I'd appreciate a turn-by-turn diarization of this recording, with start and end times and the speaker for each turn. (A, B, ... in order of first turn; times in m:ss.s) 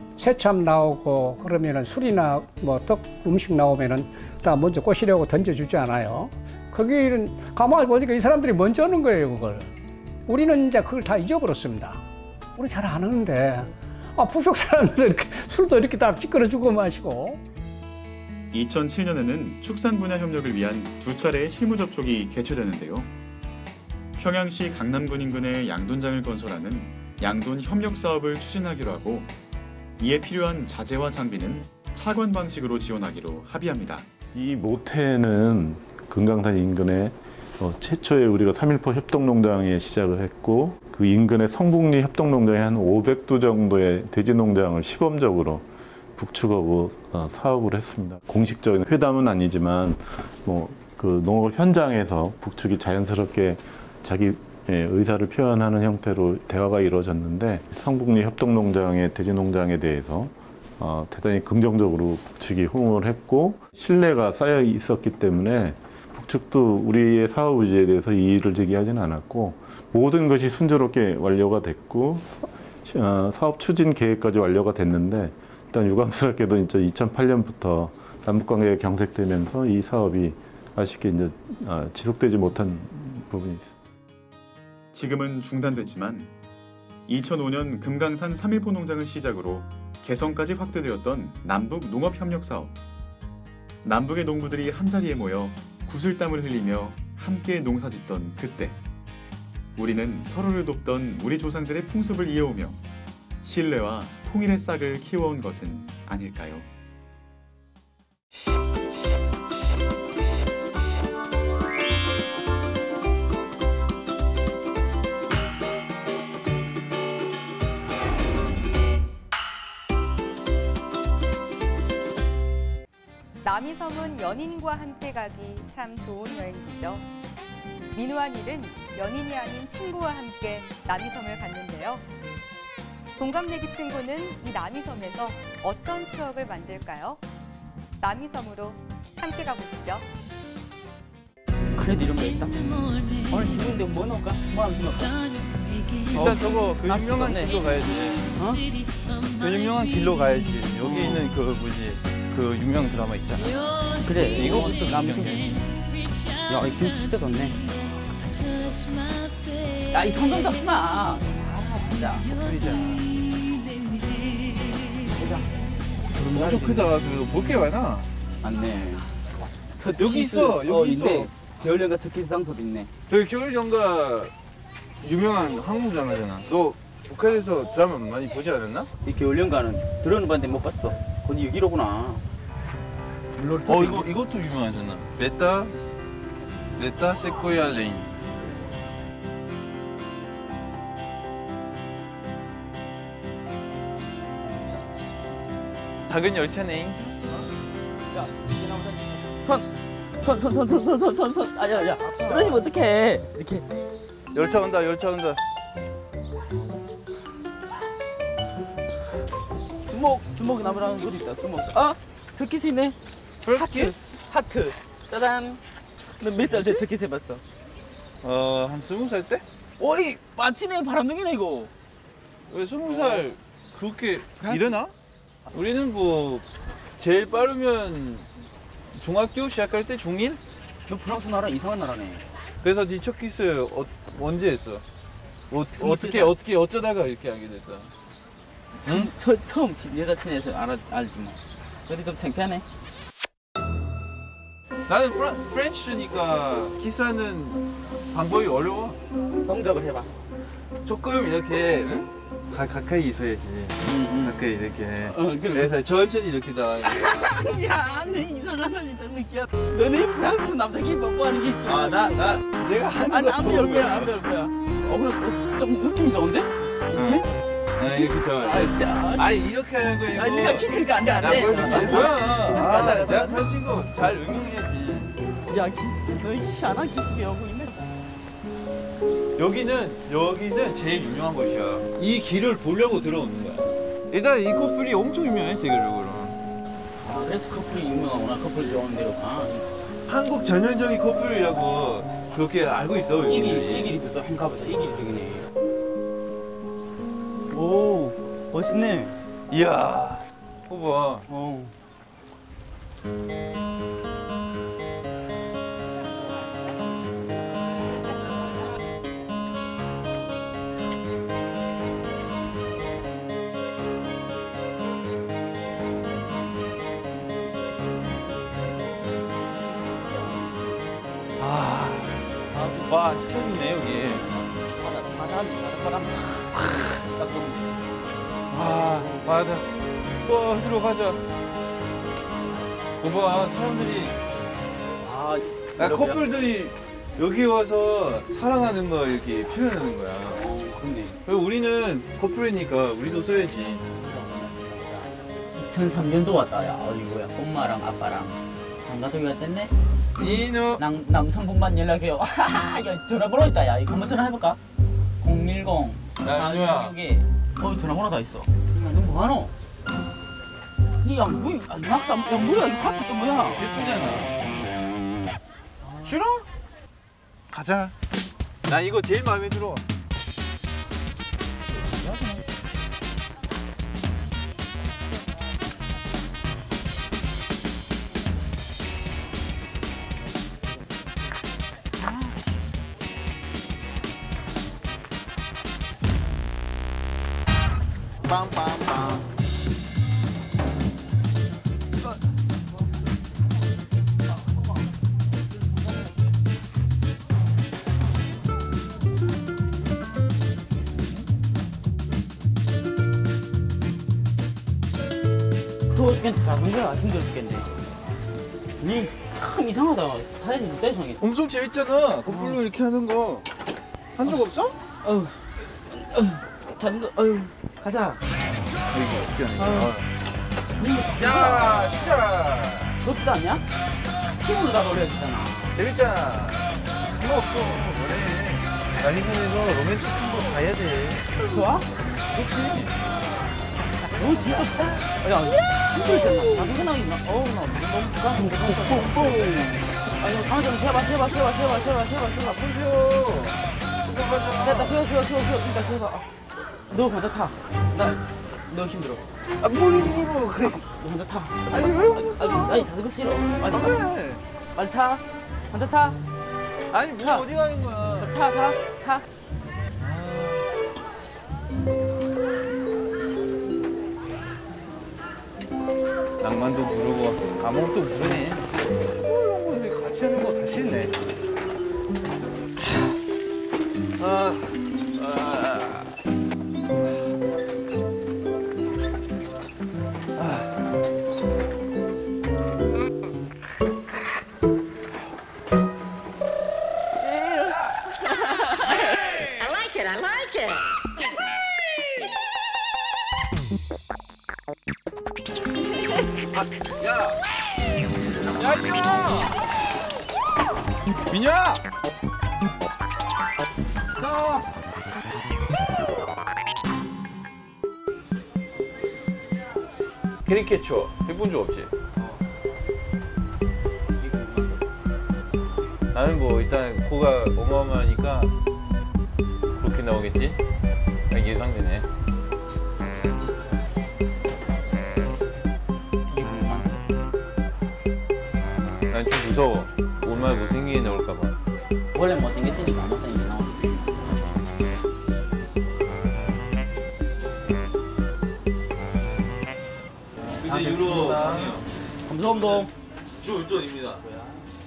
0:00.2-0:09.7 A
0:10.3-0:12.0 A
0:12.6-0:17.4 A
0:18.5-0:23.1 B
0:24.2-0:29.3 B
0:30.0-0:34.0 B
0:34.3-0:45.6 C
0:46.2-1:23.8 C
1:24.9-1:26.3 B
1:27.1-1:32.7 B
1:33.8-1:38.8 B
1:39.8-1:42.8 B
1:43.4-1:46.6 B
2:03.4-2:07.0 D
2:07.9-2:12.0 D
2:13.2-2:17.2 D
2:18.0-2:20.0 D
2:21.7-2:25.2 E
2:26.1-2:27.8 E
2:26.1-2:28.2 F
2:28.3-2:28.6 E
2:29.4-2:35.6 F
2:30.8-2:31.3 E
2:34.0-2:35.5 E
2:36.5-2:37.6 E
2:39.9-2:42.4 E
2:42.3-2:43.0 F
2:45.1-2:45.5 E
2:46.1-2:46.9 E
2:46.2-2:48.1 F
2:48.4-2:49.1 E
2:49.7-2:52.9 E
2:50.0-2:51.3 F
2:53.1-2:54.3 F
2:55.0-2:58.9 F
2:59.0-3:02.2 E
3:03.4-3:04.1 E
3:03.4-3:05.8 F
3:06.8-3:08.1 F
3:16.1-3:17.0 F
3:18.1-3:23.6 E
3:24.3-3:25.4 F
3:29.9-3:33.0 E
3:33.4-3:34.2 F
3:33.5-3:35.6 E
3:36.2-3:37.4 E
3:36.3-3:36.8 F
3:38.2-3:39.4 F
3:39.8-3:41.7 E
3:42.5-3:44.9 F
3:42.8-3:43.3 E
3:44.4-3:44.8 E
3:45.5-3:46.4 F
3:47.0-3:48.3 F
3:48.9-3:50.4 F
3:50.9-3:52.2 E
3:52.6-3:54.8 F
3:55.5-3:57.9 F
3:55.7-3:56.4 E
3:58.8-4:02.6 E
4:04.9-4:09.0 F
4:09.4-4:10.1 E
4:10.8-4:17.3 F
4:13.8-4:15.8 E
4:16.8-4:27.3 E
4:21.6-4:24.2 F
4:26.9-4:27.2 F
4:27.8-4:35.1 F
4:27.8-4:29.4 E
4:30.1-4:33.5 E
4:35.5-4:37.9 E
4:39.4-4:46.4 F
4:47.0-4:49.8 E
4:50.1-4:53.9 F
4:53.2-4:55.5 E
4:57.5-4:59.1 E
4:59.5-5:01.2 F
5:01.3-5:01.7 E
5:19.9-5:20.4 E
5:21.4-5:24.2 F
5:22.6-5:23.0 E
5:24.8-5:27.6 E
5:26.5-5:27.0 F
5:28.5-5:29.6 F
5:30.2-5:31.2 F
5:33.0-5:34.2 F
5:35.0-5:36.3 E
5:35.8-5:40.4 F
5:40.3-5:41.2 E
5:41.2-5:43.8 F
5:43.9-5:54.6 E
5:50.2-5:50.8 F
5:55.2-5:59.5 E
5:56.2-5:56.9 F
6:01.0-6:03.7 E
6:03.6-6:04.4 F
6:05.8-6:06.2 E
6:06.0-6:06.4 F
6:07.5-6:07.9 F
6:08.6-6:09.8 F
6:11.7-6:12.4 E
6:28.2-6:29.2 F
6:45.9-6:47.8 E
6:48.8-6:51.2 E
6:51.2-6:53.5 F
6:52.2-6:52.6 E
6:54.2-6:54.8 F
6:55.0-6:58.2 E
6:58.8-7:00.0 F
6:59.6-7:00.0 E
7:00.8-7:01.9 E
7:01.1-7:03.0 F
7:03.0-7:03.6 E
7:04.3-7:05.8 E
7:05.7-7:11.5 F
7:11.4-7:12.9 E
7:12.3-7:12.8 F
7:14.0-7:23.5 E
7:14.2-7:14.7 F
7:16.0-7:16.5 F
7:18.7-7:19.4 F
7:22.7-7:25.0 F
7:24.6-7:26.2 E
7:26.9-7:34.1 E
7:29.7-7:30.6 F
7:31.7-7:32.9 F
7:33.6-7:34.4 F
7:34.7-7:36.2 E
7:36.9-7:38.3 F
7:37.1-7:37.5 E
7:38.1-7:39.2 E
7:40.0-7:40.6 F
7:46.4-7:48.7 F
7:49.2-7:51.2 F
7:54.2-7:56.1 F
7:57.0-7:57.2 F
8:00.4-8:00.7 F
8:07.2-8:07.6 E
8:16.5-8:17.3 F
8:18.5-8:19.5 F
8:21.3-8:21.8 F
8:24.2-8:24.6 F
8:30.4-8:31.9 F
8:34.2-8:34.8 E
8:36.1-8:38.5 F
8:39.8-8:40.6 F
8:41.3-8:42.1 F
8:46.3-8:47.0 E
8:49.1-8:51.6 F
8:52.1-8:54.4 E
9:00.6-9:01.8 F
9:00.6-9:02.9 E
9:02.5-9:02.9 F
9:03.4-9:04.2 F